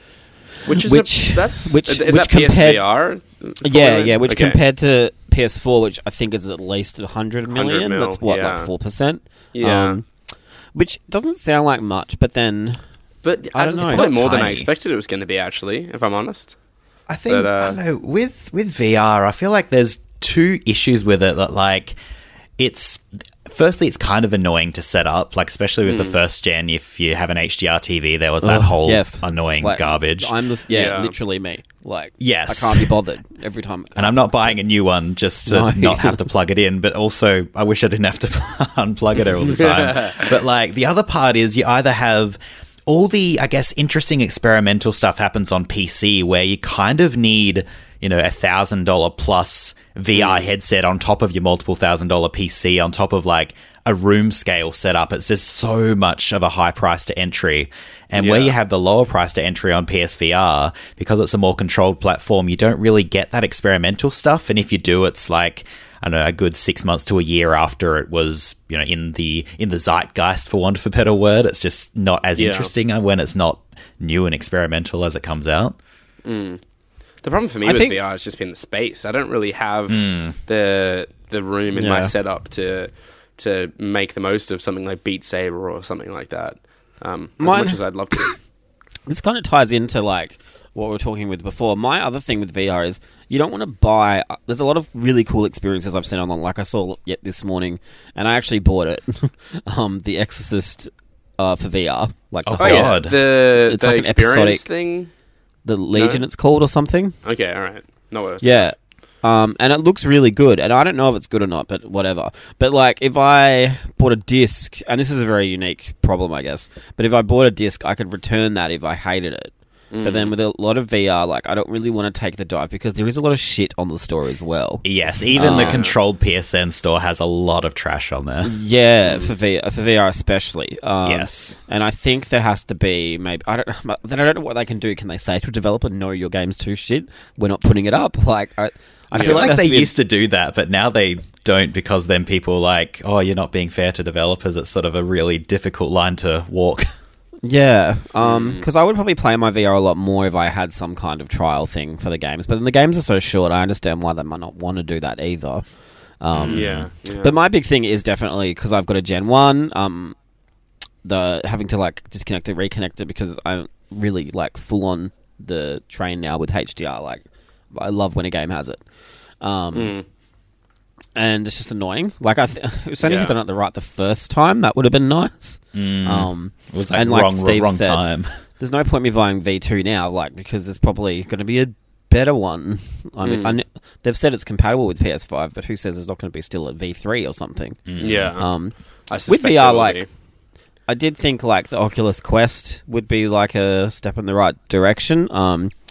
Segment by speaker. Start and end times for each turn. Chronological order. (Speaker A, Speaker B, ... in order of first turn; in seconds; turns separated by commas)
Speaker A: 0.7-4.6, Speaker B: 0.8-2.8, Speaker B: 3.6-10.2, Speaker A: 7.5-8.7, Speaker A: 9.5-10.0, Speaker B: 10.7-12.8, Speaker A: 13.2-16.6, Speaker B: 13.6-14.1, Speaker C: 13.8-14.7, Speaker C: 17.1-22.0, Speaker A: 17.3-17.8, Speaker C: 22.6-30.3, Speaker A: 25.9-26.2, Speaker B: 28.4-34.5, Speaker A: 30.7-31.1, Speaker C: 32.2-32.9, Speaker C: 34.0-75.8, Speaker B: 35.5-36.2, Speaker A: 39.4-40.4, Speaker A: 50.1-50.5, Speaker A: 58.1-58.6, Speaker A: 72.4-72.7, Speaker A: 76.2-76.6, Speaker A: 77.2-88.4, Speaker B: 77.7-78.0, Speaker C: 79.9-80.4, Speaker B: 81.8-82.1, Speaker B: 87.4-88.3, Speaker B: 89.1-104.6, Speaker C: 102.5-103.2, Speaker A: 102.6-105.1, Speaker B: 105.7-107.2, Speaker A: 106.0-106.2, Speaker A: 107.2-108.7, Speaker B: 108.4-125.8, Speaker A: 119.9-120.3, Speaker C: 124.8-128.5, Speaker A: 125.4-126.0, Speaker B: 128.4-139.9, Speaker C: 131.1-131.6, Speaker A: 139.1-139.5, Speaker C: 139.2-146.9, Speaker B: 147.4-160.2, Speaker A: 148.2-148.7, Speaker C: 156.3-156.9, Speaker A: 156.5-157.3, Speaker B: 161.0-168.8, Speaker B: 169.4-169.9, Speaker A: 169.7-170.0, Speaker B: 171.2-178.0, Speaker A: 173.0-173.3, Speaker C: 175.8-178.3, Speaker B: 178.6-190.1, Speaker A: 183.2-183.6, Speaker C: 187.9-188.4, Speaker A: 188.0-188.4, Speaker A: 189.1-190.1, Speaker B: 190.9-195.8